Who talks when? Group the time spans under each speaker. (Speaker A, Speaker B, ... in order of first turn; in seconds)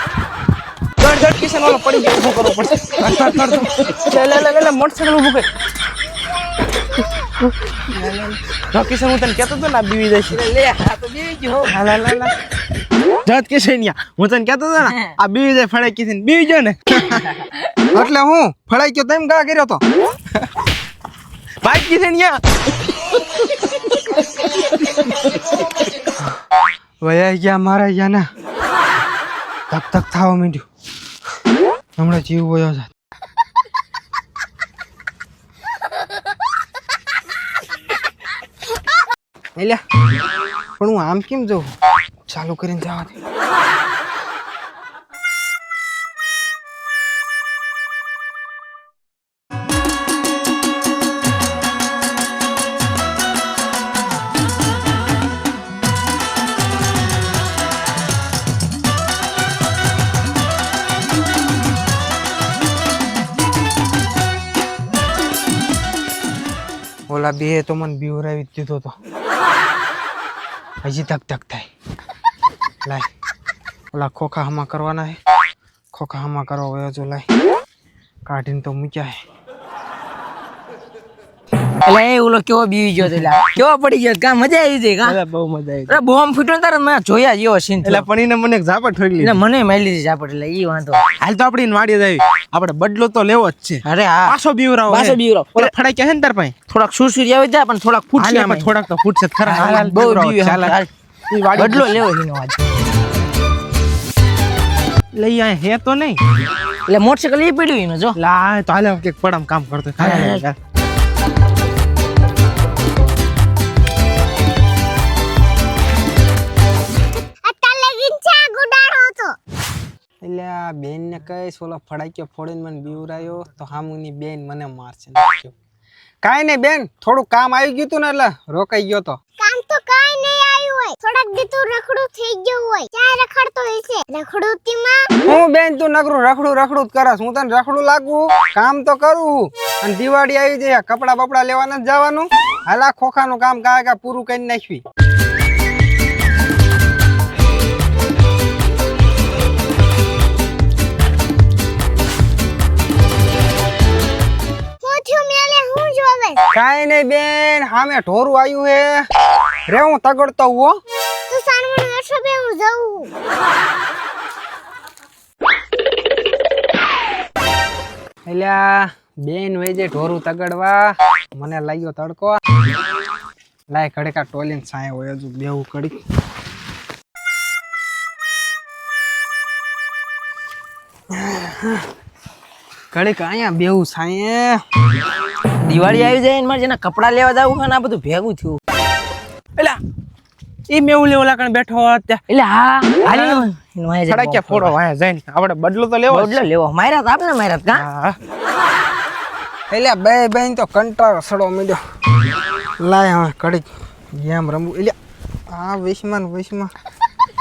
Speaker A: 1.0-5.5, 7.7-10.4, 11.7-12.3, 13.2-17.2, 21.6-22.4, 85.0-86.0, 87.8-89.4, 91.2-96.5, 98.2-102.0, 105.1-106.2, 108.2-110.5, 190.7-192.2, 193.1-193.4, 194.1-196.4, 197.7-198.2
Speaker B: 10.3-11.7, 81.8-85.2, 85.9-88.1, 89.2-91.0, 93.8-94.3, 94.9-95.7, 96.7-98.7, 99.5-100.9, 101.5-102.5, 106.9-108.2, 110.0-110.4, 185.6-188.6, 192.3-194.7, 196.1-197.8
Speaker C: 11.8-12.3, 17.9-19.8, 27.0-28.3, 29.7-30.6, 32.0-32.9, 39.6-39.8, 40.8-41.7, 42.3-43.1, 67.1-68.9, 70.8-71.7, 73.9-75.2, 75.9-77.2, 78.2-79.2, 120.2-125.5, 126.2-129.2, 135.2-144.8, 156.5-159.1, 159.7-160.8, 168.2-172.4, 173.7-176.0, 181.1-181.8, 182.9-184.6, 199.7-201.8, 202.8-204.9, 205.5-206.7
Speaker D: 117.4-119.4, 129.4-135.1, 154.8-156.4, 161.3-163.1